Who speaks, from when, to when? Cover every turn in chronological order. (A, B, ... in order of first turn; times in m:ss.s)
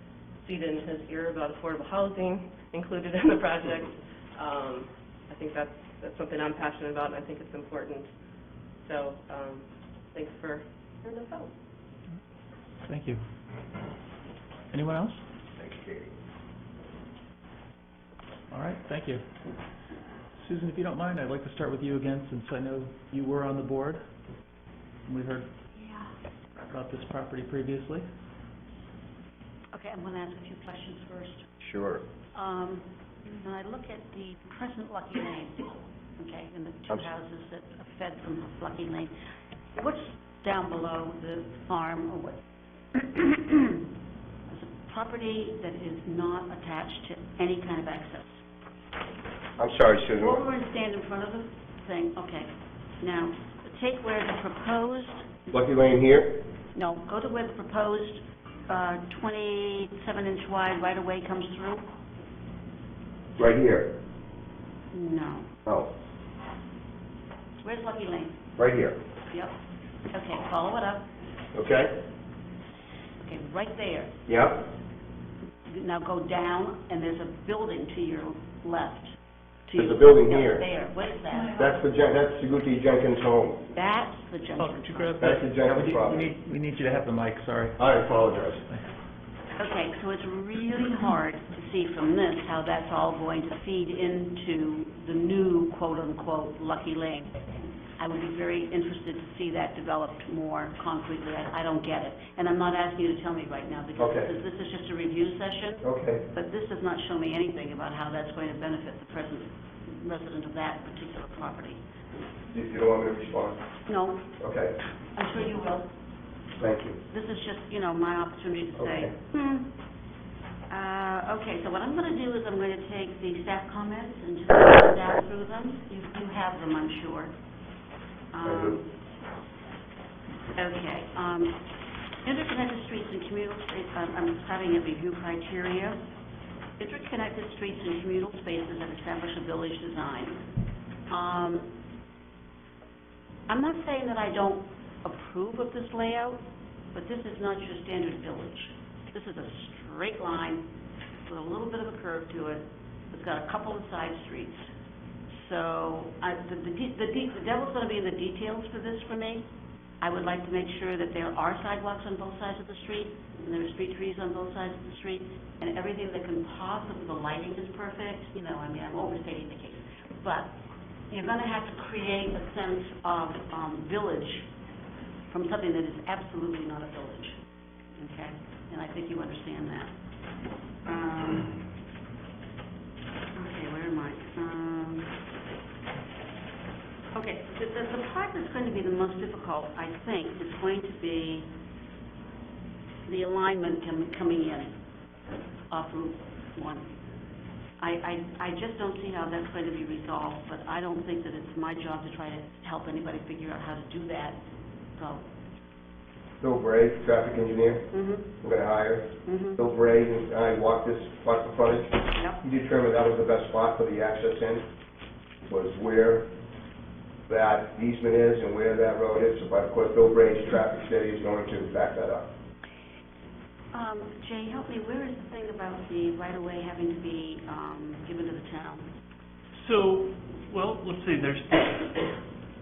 0:00.4-0:08.2 A
0:08.8-0:11.5 A
0:12.9-0:13.2 B
0:14.7-0:15.2 B
0:15.6-0:16.1 C
0:18.5-0:19.2 B
0:20.3-0:24.0 B
0:25.1-0:25.5 B
0:25.8-0:26.1 D
0:26.7-0:28.1 B
0:29.7-0:31.5 D
0:31.6-0:32.0 C
0:32.3-0:39.1 D
0:39.8-0:42.4 D
0:42.9-0:43.8 D
0:44.5-0:48.4 D
0:49.6-0:50.4 C
0:50.2-0:55.3 D
0:55.5-0:56.3 C
0:56.7-1:01.8 D
1:03.4-1:03.9 C
1:04.9-1:05.5 D
1:07.6-1:08.4 D
1:08.6-1:09.0 C
1:10.1-1:11.1 D
1:11.5-1:11.9 C
1:13.2-1:14.2 D
1:14.3-1:14.6 C
1:15.7-1:21.6 D
1:19.8-1:20.6 C
1:21.6-1:23.6 C
1:23.7-1:25.2 D
1:24.6-1:25.3 E
1:25.0-1:27.9 B
1:25.2-1:26.3 C
1:27.8-1:28.6 C
1:29.6-1:51.8 D
1:44.0-1:44.3 C
1:45.8-1:46.2 C
1:52.5-1:53.6 C
1:53.9-1:54.3 D
1:54.4-1:54.8 C
1:55.1-1:55.9 D
1:56.6-1:57.0 C
1:57.1-1:59.7 D
1:58.8-1:59.1 C
2:00.7-2:07.3 D
2:08.3-2:08.9 D
2:08.4-2:08.8 C
2:10.5-2:11.6 D
2:12.2-2:16.0 D
2:16.8-2:20.4 D
2:21.1-2:21.7 D
2:23.5-2:30.7 D
2:31.2-2:34.7 D
2:35.3-2:39.5 D
2:40.0-2:50.6 D
2:51.1-2:54.5 D
2:55.3-2:57.4 D
2:58.0-2:59.9 D
3:00.8-3:01.6 D
3:03.4-3:05.2 D
3:07.1-3:11.5 D
3:13.1-3:14.8 D
3:15.7-3:16.9 D
3:17.8-3:24.4 D
3:25.0-3:25.2 D
3:26.4-3:27.9 C
3:27.9-3:28.3 D
3:28.4-3:34.6 C
3:29.2-3:29.6 D
3:32.1-3:32.4 D
3:35.5-3:36.3 C
3:37.3-3:42.3 C
3:43.7-3:48.9 D
3:49.5-3:52.2 E